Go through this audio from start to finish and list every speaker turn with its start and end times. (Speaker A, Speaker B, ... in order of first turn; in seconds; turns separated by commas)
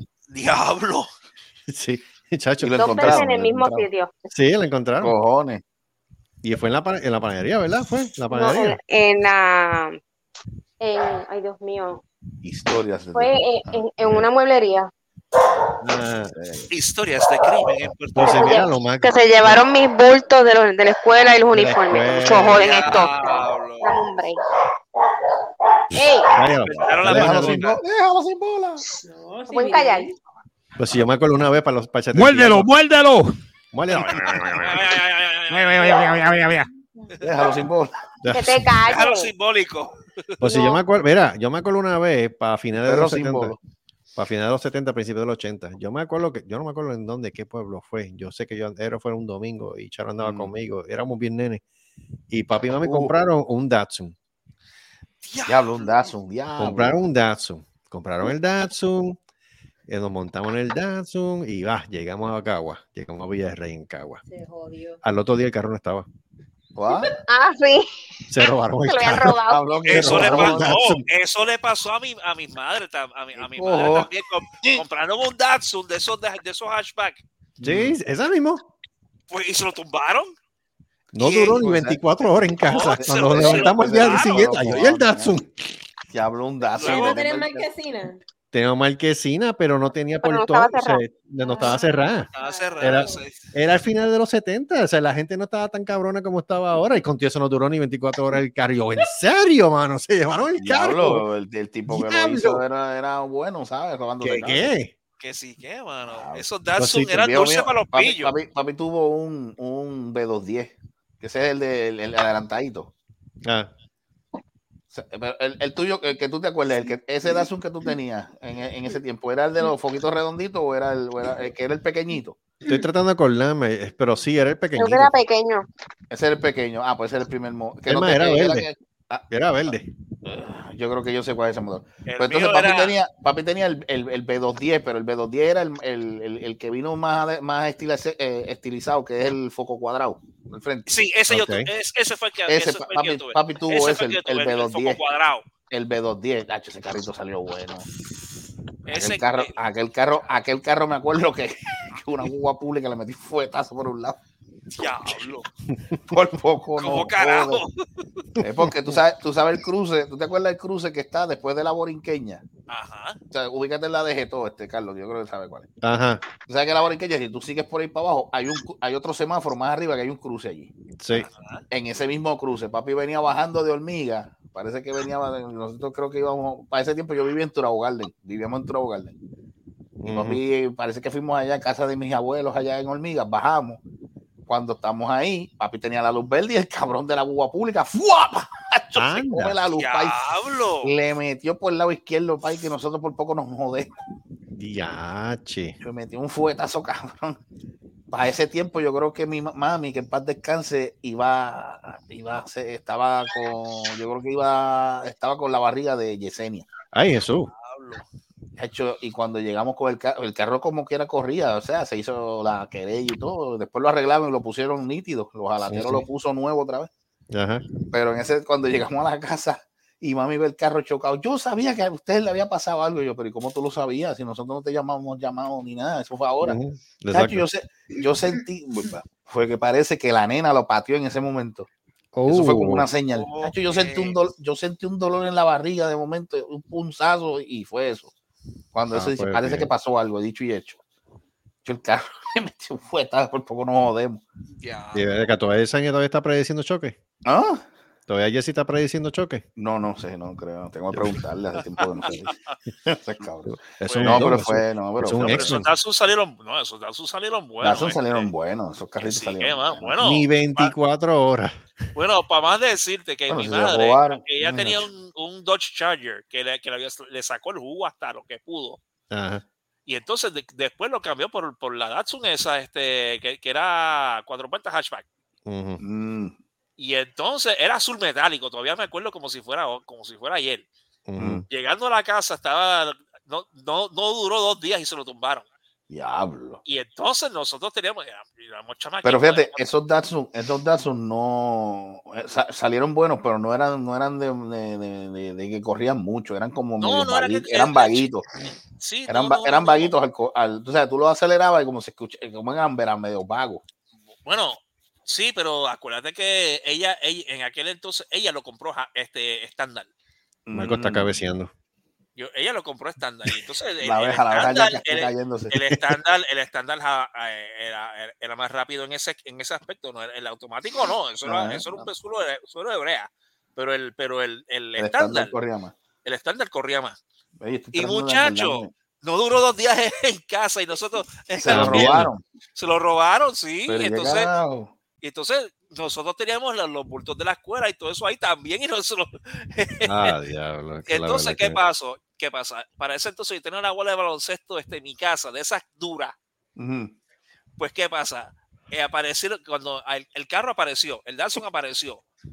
Speaker A: 0.3-1.1, Speaker B: 1.7-3.2, Speaker C: 2.6-3.9, Speaker D: 2.8-4.3, Speaker B: 4.3-5.1, Speaker C: 5.0-5.6, Speaker B: 6.4-8.8, Speaker D: 8.3-10.0, Speaker D: 10.8-12.0, Speaker C: 12.4-13.8, Speaker D: 13.1-14.9, Speaker B: 15.8-16.4, Speaker C: 16.3-16.7, Speaker A: 16.7-18.6, Speaker B: 18.1-19.6, Speaker D: 18.2-24.4, Speaker B: 21.5-23.1, Speaker A: 22.5-24.1, Speaker D: 25.9-26.3, Speaker B: 26.3-27.7, Speaker A: 26.6-27.8, Speaker C: 26.8-28.8, Speaker E: 29.0-30.1, Speaker D: 29.5-30.1, Speaker B: 30.8-32.7, Speaker F: 32.1-33.3, Speaker B: 33.7-34.9, Speaker F: 33.9-34.8, Speaker A: 34.6-36.1, Speaker F: 35.5-36.7, Speaker A: 37.1-37.6, Speaker C: 37.2-37.9, Speaker B: 38.2-38.7, Speaker D: 38.3-39.3, Speaker A: 38.9-40.3, Speaker B: 40.4-43.6, Speaker D: 40.4-40.8, Speaker C: 42.7-43.6, Speaker B: 44.1-51.6, Speaker C: 50.2-50.5, Speaker B: 52.3-54.1, Speaker C: 52.8-53.1, Speaker A: 55.2-56.0, Speaker C: 55.5-57.0, Speaker B: 56.6-59.2, Speaker B: 59.9-64.2, Speaker E: 64.2-65.0, Speaker B: 65.0-66.1, Speaker C: 66.7-67.1, Speaker D: 67.3-67.9, Speaker B: 68.3-71.0, Speaker D: 68.9-69.6, Speaker C: 69.5-70.6, Speaker A: 69.8-77.2, Speaker C: 73.4-74.1, Speaker C: 77.6-78.0, Speaker B: 77.6-78.7, Speaker A: 79.3-80.3, Speaker B: 81.1-85.5, Speaker A: 81.2-81.6, Speaker C: 81.6-82.0, Speaker A: 82.7-84.8, Speaker C: 82.8-85.4, Speaker C: 86.1-87.7, Speaker A: 86.8-87.2, Speaker E: 86.8-88.2, Speaker B: 88.5-92.3, Speaker D: 90.2-91.0, Speaker E: 91.4-93.2, Speaker A: 92.4-93.5, Speaker B: 92.8-101.2, Speaker C: 100.6-104.7, Speaker B: 101.9-102.6, Speaker B: 104.2-104.9, Speaker A: 105.2-108.3, Speaker C: 106.1-106.4, Speaker B: 106.8-107.1, Speaker C: 107.1-112.9, Speaker B: 113.4-113.7, Speaker C: 114.9-122.4, Speaker B: 122.6-125.1, Speaker D: 124.8-125.7, Speaker C: 126.1-129.3, Speaker B: 127.9-128.7, Speaker B: 129.3-129.9, Speaker C: 130.2-140.9, Speaker A: 132.1-132.9, Speaker A: 140.9-145.4, Speaker B: 141.3-141.7, Speaker C: 142.5-145.0, Speaker C: 145.7-147.9, Speaker A: 148.9-149.5, Speaker C: 148.9-154.2, Speaker B: 154.8-156.0, Speaker A: 154.8-155.5, Speaker C: 156.1-157.6, Speaker A: 156.8-157.8, Speaker B: 158.4-159.0, Speaker C: 158.4-162.4, Speaker A: 162.7-163.2, Speaker C: 163.3-165.7, Speaker B: 165.8-166.2, Speaker C: 166.5-170.7, Speaker B: 171.0-171.3, Speaker A: 171.1-171.6, Speaker C: 171.7-179.2, Speaker B: 180.0-180.4, Speaker C: 180.1-183.8, Speaker C: 184.5-190.2, Speaker B: 188.9-189.6, Speaker A: 189.8-190.9, Speaker C: 190.8-193.9, Speaker B: 194.6-195.8, Speaker C: 195.8-197.4, Speaker C: 198.1-206.7, Speaker B: 206.9-207.5, Speaker A: 207.5-208.0, Speaker C: 208.6-216.9, Speaker B: 215.6-216.1, Speaker B: 217.3-217.6, Speaker C: 217.9-226.6, Speaker B: 226.4-227.4, Speaker C: 227.1-231.7, Speaker B: 232.1-232.9, Speaker C: 232.3-238.1, Speaker A: 233.1-234.2, Speaker C: 238.7-240.8, Speaker B: 238.9-239.7, Speaker C: 241.6-244.2, Speaker A: 244.6-245.1, Speaker B: 244.9-246.9, Speaker C: 247.2-247.6, Speaker B: 248.1-249.4, Speaker C: 249.6-252.3, Speaker B: 250.9-251.2, Speaker A: 252.0-252.5, Speaker C: 252.9-255.6, Speaker B: 253.5-255.7, Speaker A: 253.8-254.3, Speaker A: 255.2-258.3, Speaker C: 257.6-259.9, Speaker A: 259.0-260.7, Speaker B: 260.0-261.6, Speaker A: 261.9-268.8, Speaker C: 263.3-264.8, Speaker B: 264.4-264.7, Speaker B: 269.1-269.4, Speaker A: 269.9-275.1, Speaker B: 275.4-275.8, Speaker C: 275.8-276.4, Speaker A: 276.8-280.7, Speaker B: 281.1-281.4, Speaker C: 281.2-281.4, Speaker A: 281.5-285.5, Speaker C: 285.9-286.6, Speaker A: 286.6-289.6, Speaker C: 289.0-298.2, Speaker A: 296.8-298.1, Speaker A: 298.8-299.9, Speaker C: 299.1-303.6, Speaker A: 304.2-309.9, Speaker C: 310.5-311.1, Speaker B: 310.5-311.5, Speaker A: 312.1-325.3, Speaker C: 313.8-315.9, Speaker C: 321.3-321.9, Speaker C: 324.8-325.7, Speaker A: 326.1-327.0, Speaker C: 327.4-328.7, Speaker A: 327.7-334.3, Speaker C: 331.4-332.2, Speaker B: 331.4-332.1, Speaker C: 333.7-334.7, Speaker A: 335.0-340.1, Speaker B: 339.8-341.6, Speaker A: 340.9-346.1, Speaker C: 346.6-346.9, Speaker A: 347.6-352.0